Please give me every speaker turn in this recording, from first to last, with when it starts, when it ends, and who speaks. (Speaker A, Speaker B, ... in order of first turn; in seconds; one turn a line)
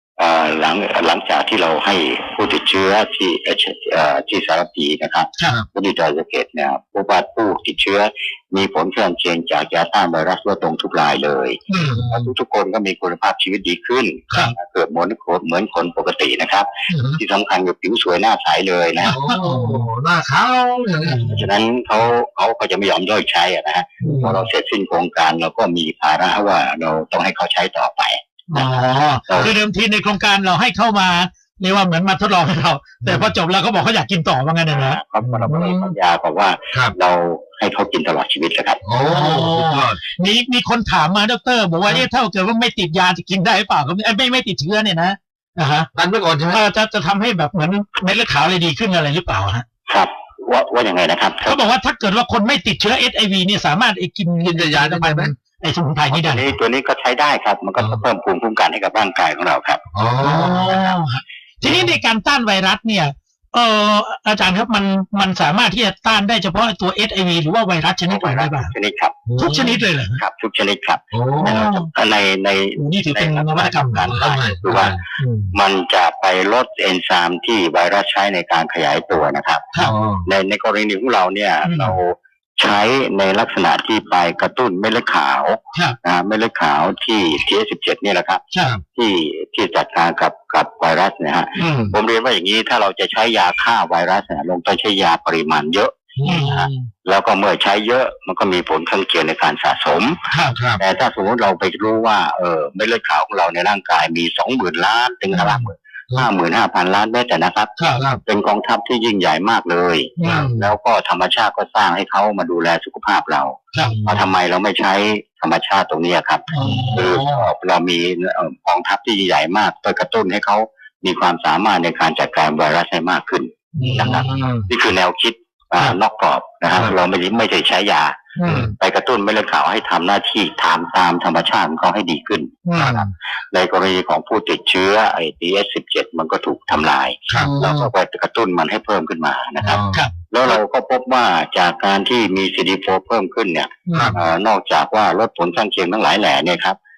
Speaker A: 0.2-19.1
Speaker B: 11.7-12.1
Speaker C: 11.7-12.3
Speaker C: 16.9-17.2
Speaker B: 19.0-19.8
Speaker C: 19.1-21.4
Speaker B: 21.0-21.4
Speaker A: 21.3-29.5
Speaker C: 24.0-24.4
Speaker B: 28.5-35.9
Speaker C: 33.0-33.3
Speaker A: 34.7-38.8
Speaker C: 35.2-35.5
Speaker C: 38.8-40.0
Speaker B: 39.0-45.9
Speaker C: 45.9-46.6
Speaker B: 46.5-49.6
Speaker A: 49.9-51.6
Speaker B: 51.5-56.4
Speaker C: 54.4-55.3
Speaker A: 56.1-59.8
Speaker C: 57.8-58.0
Speaker C: 59.9-60.8
Speaker B: 60.2-68.7
Speaker A: 68.1-69.2
Speaker C: 69.3-69.8
Speaker B: 69.4-70.2
Speaker A: 70.2-75.0
Speaker C: 71.1-71.6
Speaker B: 71.4-71.9
Speaker B: 72.8-74.2
Speaker C: 74.1-75.5
Speaker A: 75.5-79.7
Speaker C: 79.8-80.3
Speaker A: 80.2-88.4
Speaker B: 81.6-82.0
Speaker A: 88.9-100.2
Speaker B: 91.6-91.9
Speaker C: 96.2-96.6
Speaker B: 96.2-96.7
Speaker B: 100.3-100.6
Speaker C: 100.5-100.8
Speaker A: 100.8-146.8
Speaker B: 105.3-105.6
Speaker B: 107.8-108.0
Speaker B: 110.2-110.5
Speaker C: 110.2-110.7
Speaker B: 113.7-114.0
Speaker C: 113.8-114.3
Speaker B: 116.5-117.5
Speaker C: 116.6-117.1
Speaker B: 123.8-124.4
Speaker C: 123.8-124.7
Speaker B: 128.4-128.7
Speaker C: 128.4-128.7
Speaker B: 132.7-133.0
Speaker C: 132.8-133.1
Speaker B: 137.3-137.9
Speaker C: 139.6-140.0
Speaker B: 143.9-144.2